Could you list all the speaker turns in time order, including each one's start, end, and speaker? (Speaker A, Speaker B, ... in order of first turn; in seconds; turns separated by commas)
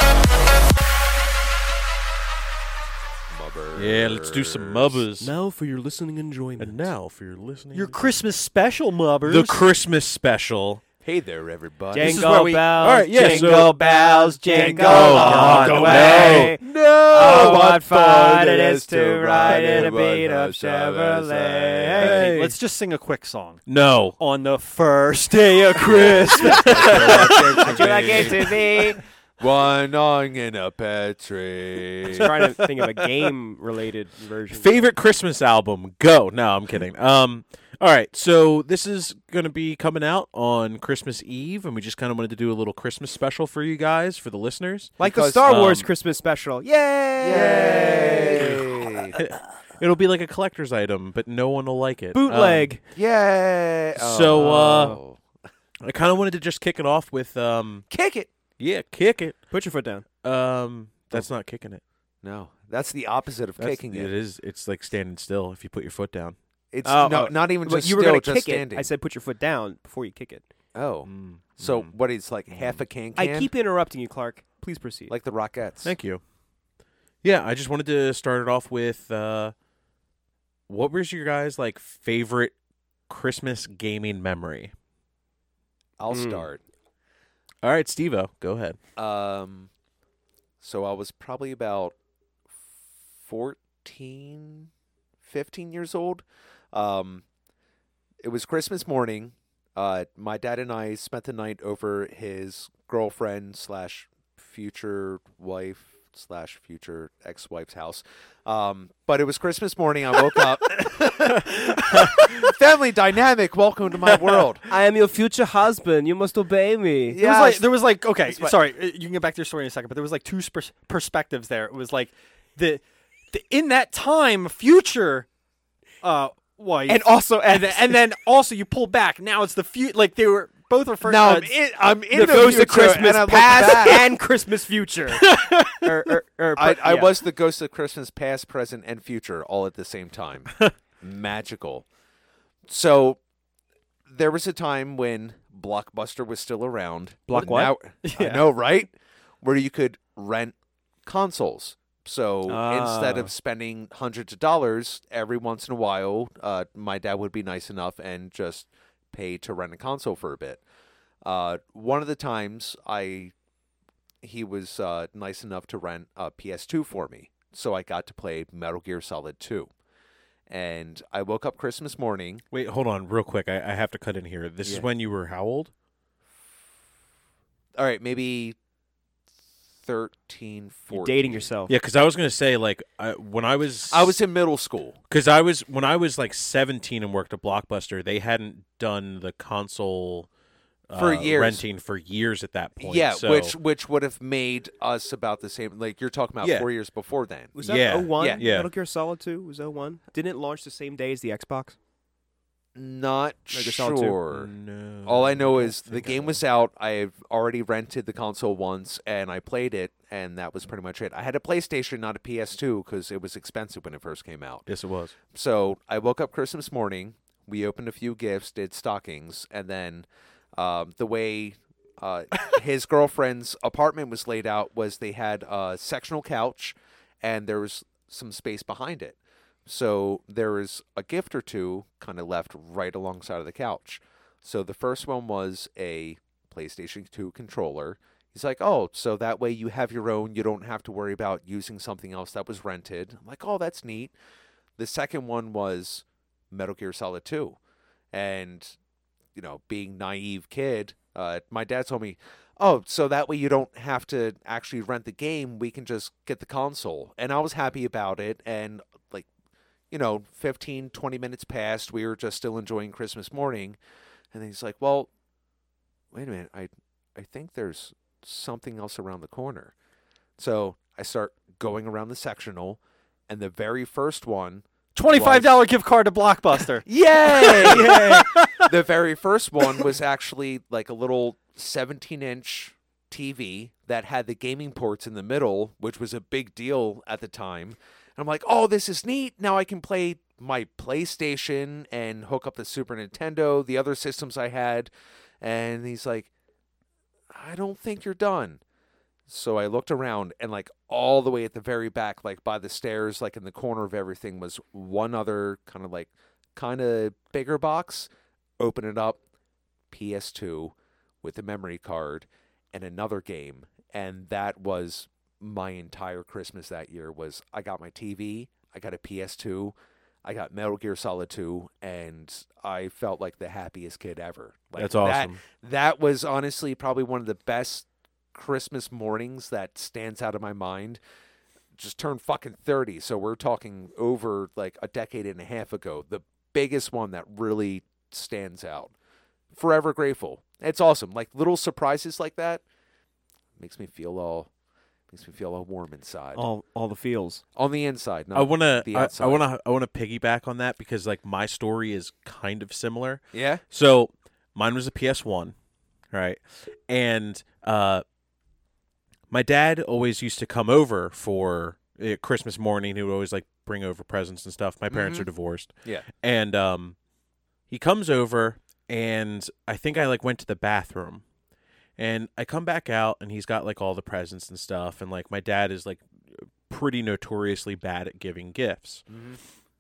Speaker A: 3.3-5.0, Speaker B: 3.8-5.3, Speaker C: 5.2-6.9, Speaker B: 6.6-8.1, Speaker D: 7.7-9.7, Speaker B: 9.2-10.8, Speaker A: 11.0-12.2, Speaker C: 11.9-22.4, Speaker D: 11.9-16.2, Speaker B: 12.2-13.7, Speaker A: 14.5-16.6, Speaker B: 14.8-17.7, Speaker A: 17.1-22.1, Speaker B: 22.0-22.6, Speaker D: 22.0-23.6, Speaker B: 23.7-24.2, Speaker D: 24.2-28.5, Speaker A: 25.9-32.3, Speaker B: 26.9-27.3, Speaker C: 26.9-29.0, Speaker B: 27.8-28.3, Speaker C: 32.1-34.9, Speaker B: 34.5-45.9, Speaker C: 45.0-48.6, Speaker A: 45.0-45.5, Speaker A: 47.2-49.2, Speaker B: 47.3-52.7, Speaker C: 52.1-52.8, Speaker A: 53.0-55.2, Speaker B: 54.0-55.0, Speaker C: 54.3-54.9, Speaker B: 55.8-57.9, Speaker A: 57.9-58.3, Speaker B: 58.6-59.4, Speaker C: 59.5-60.0, Speaker B: 60.2-61.8, Speaker A: 62.2-64.1, Speaker B: 63.6-66.4, Speaker A: 66.7-68.9, Speaker C: 66.8-70.4, Speaker A: 70.7-73.5, Speaker B: 71.0-71.9, Speaker B: 72.5-72.8, Speaker C: 73.2-75.1, Speaker A: 75.1-75.9, Speaker B: 75.8-76.2, Speaker B: 77.2-79.5, Speaker B: 80.7-82.5, Speaker B: 83.1-84.7, Speaker A: 86.0-86.6, Speaker B: 87.6-88.8, Speaker A: 89.0-89.7, Speaker A: 90.6-92.0, Speaker A: 93.2-94.7, Speaker A: 95.2-97.2, Speaker A: 98.2-114.6, Speaker C: 114.7-117.2, Speaker A: 117.1-117.7, Speaker D: 117.2-125.3, Speaker A: 118.2-118.5, Speaker D: 126.0-131.5, Speaker C: 126.9-128.0, Speaker A: 131.0-134.1, Speaker C: 132.1-137.2, Speaker D: 135.2-135.9, Speaker A: 136.6-141.9, Speaker A: 142.7-143.2, Speaker A: 144.1-160.6, Speaker C: 147.3-147.8, Speaker D: 148.0-148.5, Speaker C: 152.5-153.3, Speaker A: 161.2-163.3, Speaker A: 164.2-169.7, Speaker A: 170.5-172.4, Speaker B: 172.5-175.7, Speaker A: 177.8-178.6, Speaker A: 179.8-181.5, Speaker C: 180.9-181.7, Speaker B: 181.7-184.2, Speaker A: 183.9-185.0, Speaker B: 185.1-190.3, Speaker B: 190.9-193.6, Speaker A: 191.0-191.6, Speaker A: 192.8-197.6, Speaker B: 196.4-196.7, Speaker C: 197.6-201.8, Speaker B: 197.6-198.7, Speaker A: 198.2-198.5, Speaker A: 202.8-204.5, Speaker C: 203.5-204.2, Speaker B: 204.3-206.4, Speaker A: 205.1-214.7, Speaker B: 214.7-215.2, Speaker A: 215.3-244.1, Speaker A: 244.8-247.6, Speaker A: 248.1-248.8, Speaker A: 249.3-259.3, Speaker A: 259.9-263.8, Speaker A: 264.3-265.1, Speaker A: 266.1-269.7, Speaker A: 270.4-275.6, Speaker D: 274.9-278.7, Speaker A: 276.9-294.9, Speaker A: 295.4-296.3, Speaker A: 297.3-298.6, Speaker A: 299.3-309.2, Speaker A: 309.9-331.0, Speaker B: 324.8-325.4, Speaker A: 331.8-338.9, Speaker A: 339.5-342.6, Speaker A: 343.6-344.5, Speaker A: 345.1-346.4, Speaker C: 346.4-347.4, Speaker A: 347.6-349.4, Speaker B: 348.3-355.5, Speaker A: 353.3-353.6, Speaker B: 356.1-358.0, Speaker B: 359.3-367.0, Speaker A: 364.9-365.3, Speaker B: 367.7-371.2, Speaker B: 372.0-376.1, Speaker B: 376.6-379.1, Speaker A: 379.1-379.4